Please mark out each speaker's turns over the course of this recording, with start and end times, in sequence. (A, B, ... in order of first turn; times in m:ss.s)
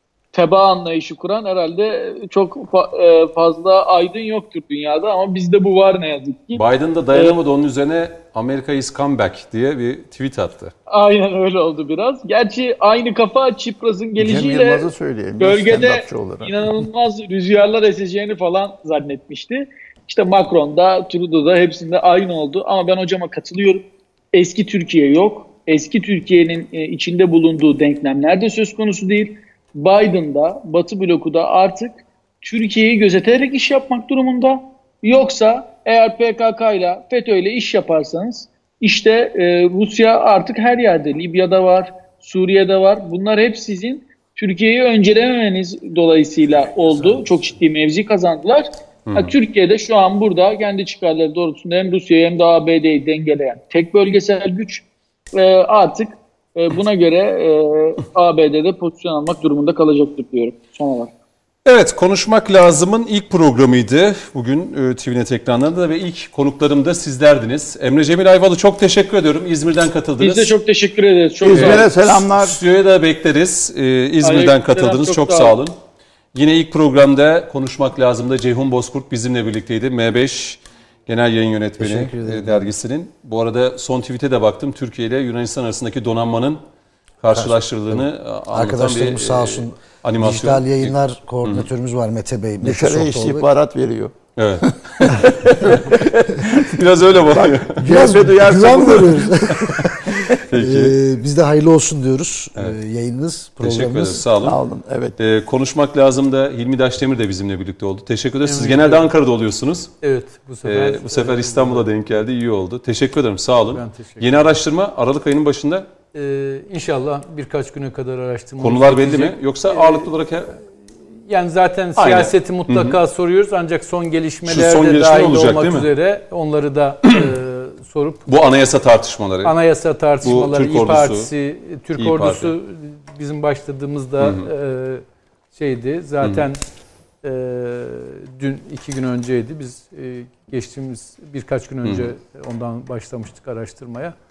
0:00.3-0:07.4 A
0:06.5-0:10.7 B
0:10.9-1:01.1 A
0:14.2-0:16.5 C
0:49.1-0:49.3 B
1:01.6-1:10.5 B
1:10.2-1:11.9 A
1:11.4-1:12.6 C
1:11.5-1:15.8 B
1:14.2-1:15.6 A
1:16.3-1:26.6 B
1:21.8-1:22.7 D
1:27.2-1:31.7 B
1:27.3-1:33.5 D
1:32.6-1:36.7 C
1:34.4-1:38.2 B
1:37.3-1:39.7 C
1:37.8-1:44.3 D
1:40.5-1:41.0 B
1:43.6-1:44.6 B
1:44.4-1:45.2 C
1:45.2-1:49.9 B
1:48.4-1:49.1 E
1:50.0-1:51.9 E
1:50.6-1:55.9 B
1:53.7-1:54.4 E
1:56.1-2:00.1 E
1:58.6-2:00.6 B
2:01.3-2:08.3 E
2:02.0-2:03.0 B
2:04.5-2:05.9 B
2:08.3-2:09.6 B
2:09.4-2:16.6 E
2:10.2-2:11.3 B
2:12.0-2:12.5 B
2:14.2-2:14.5 B
2:17.2-2:24.2 E
2:21.8-2:22.1 B